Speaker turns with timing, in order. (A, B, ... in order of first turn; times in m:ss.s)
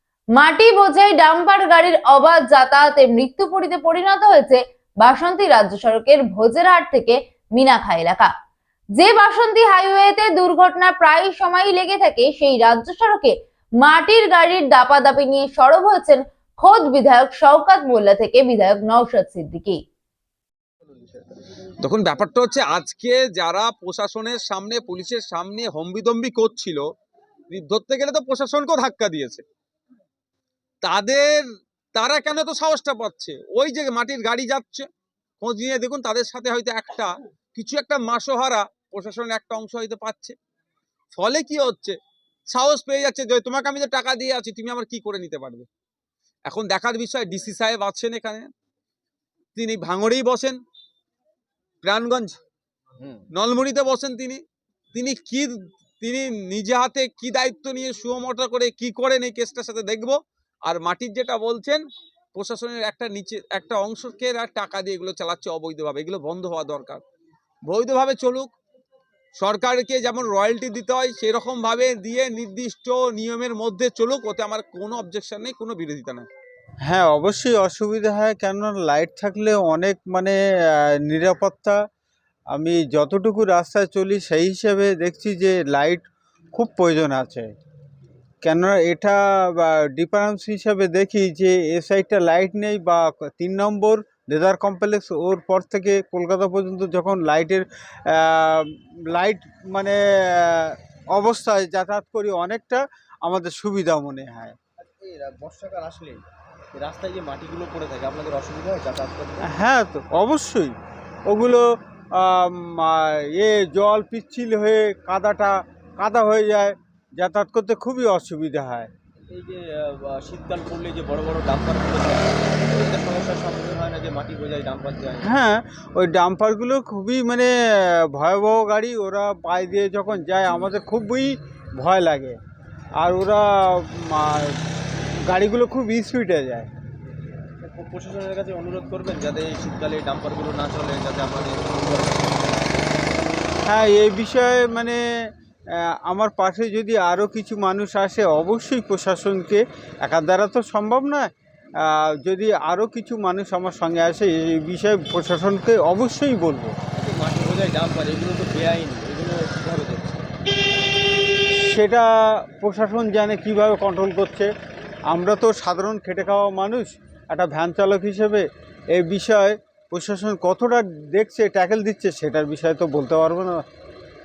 0:00.3-0:08.3 A
0:08.9-0:19.8 A
0:21.8-0:26.8 B
0:27.5-0:29.4 B
0:30.8-0:31.4 B
0:31.9-0:34.9 B
0:35.4-0:40.4 B
0:41.2-0:42.0 B
0:42.5-0:45.7 B
0:46.5-0:48.5 B
0:49.6-0:50.6 B
0:51.8-0:52.4 B
0:53.3-0:54.4 B
0:54.9-1:01.8 B
1:02.3-1:07.0 B
1:07.6-1:08.5 B
1:09.4-1:16.3 B
1:16.9-1:21.8 C
1:22.5-1:27.5 C
1:28.4-1:44.5 C
1:44.8-1:49.5 D
1:49.4-1:50.7 C
1:51.3-1:58.9 C
1:59.3-2:05.3 D
2:05.2-2:12.4 C
2:13.0-2:14.6 C
2:15.3-2:16.7 C
2:17.6-2:22.9 D
2:23.6-2:25.0 C
2:25.7-2:31.3 C
2:31.8-2:36.7 C
2:36.9-2:40.2 D
2:41.6-2:44.5 C
2:45.1-2:53.6 C